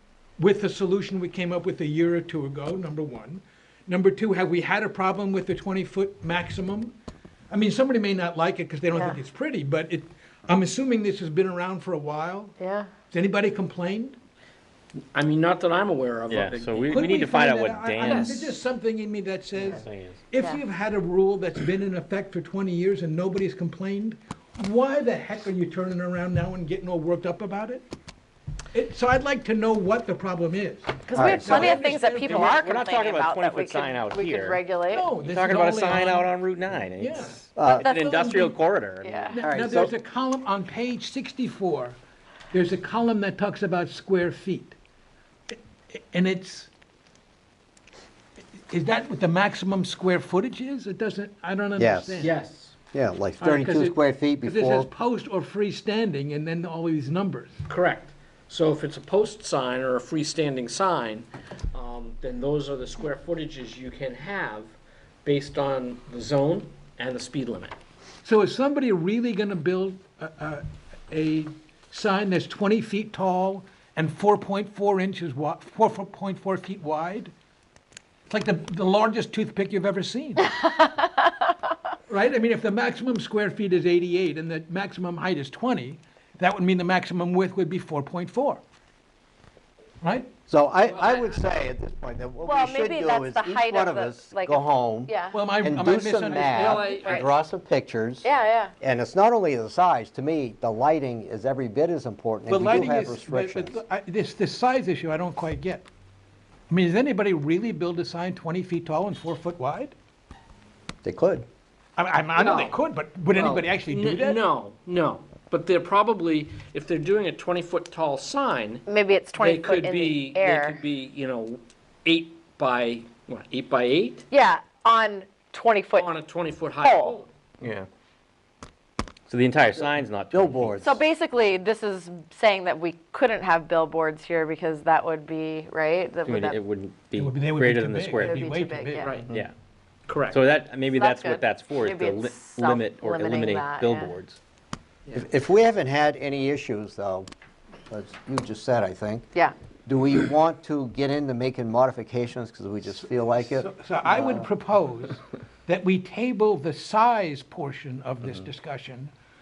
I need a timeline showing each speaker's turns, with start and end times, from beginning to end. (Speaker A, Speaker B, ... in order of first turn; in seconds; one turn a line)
Speaker A: 0.4-6.9
Speaker A: 7.5-12.6
Speaker B: 12.6-12.9
Speaker A: 13.1-14.2
Speaker C: 15.1-17.0
Speaker D: 16.3-18.6
Speaker A: 16.9-27.9
Speaker C: 18.1-18.4
Speaker D: 19.7-20.3
Speaker A: 28.7-32.6
Speaker B: 31.1-35.1
Speaker E: 31.1-31.8
Speaker D: 32.3-39.3
Speaker A: 34.9-36.3
Speaker A: 37.0-37.4
Speaker E: 37.5-37.9
Speaker B: 37.7-39.4
Speaker A: 39.3-42.0
Speaker E: 39.4-39.9
Speaker A: 42.5-44.8
Speaker A: 45.5-46.7
Speaker A: 48.7-52.3
Speaker E: 51.8-52.3
Speaker C: 52.2-52.7
Speaker E: 52.9-54.9
Speaker A: 53.4-57.6
Speaker C: 57.7-67.8
Speaker A: 68.2-77.3
Speaker A: 78.3-80.5
Speaker B: 80.5-81.5
Speaker A: 82.1-88.6
Speaker A: 90.0-90.3
Speaker E: 90.5-98.3
Speaker C: 90.8-91.4
Speaker B: 92.4-95.4
Speaker A: 95.3-97.0
Speaker C: 96.5-97.3
Speaker B: 96.7-97.2
Speaker B: 98.2-98.7
Speaker E: 98.8-103.8
Speaker A: 102.5-105.8
Speaker A: 106.7-109.9
Speaker E: 111.0-111.5
Speaker A: 112.0-114.4
Speaker C: 112.4-112.8
Speaker C: 113.3-118.8
Speaker B: 118.9-120.8
Speaker C: 119.4-124.2
Speaker B: 124.3-126.1
Speaker C: 126.0-127.3
Speaker B: 126.8-127.2
Speaker D: 127.6-127.9
Speaker D: 129.3-131.0
Speaker E: 130.3-131.0
Speaker B: 130.8-136.6
Speaker D: 136.2-138.4
Speaker A: 137.2-139.2
Speaker B: 138.2-139.2
Speaker C: 139.0-139.3
Speaker C: 140.1-140.4
Speaker D: 140.3-144.4
Speaker B: 140.8-144.1
Speaker E: 145.1-147.3
Speaker E: 147.9-149.3
Speaker E: 149.9-154.5
Speaker A: 153.4-159.1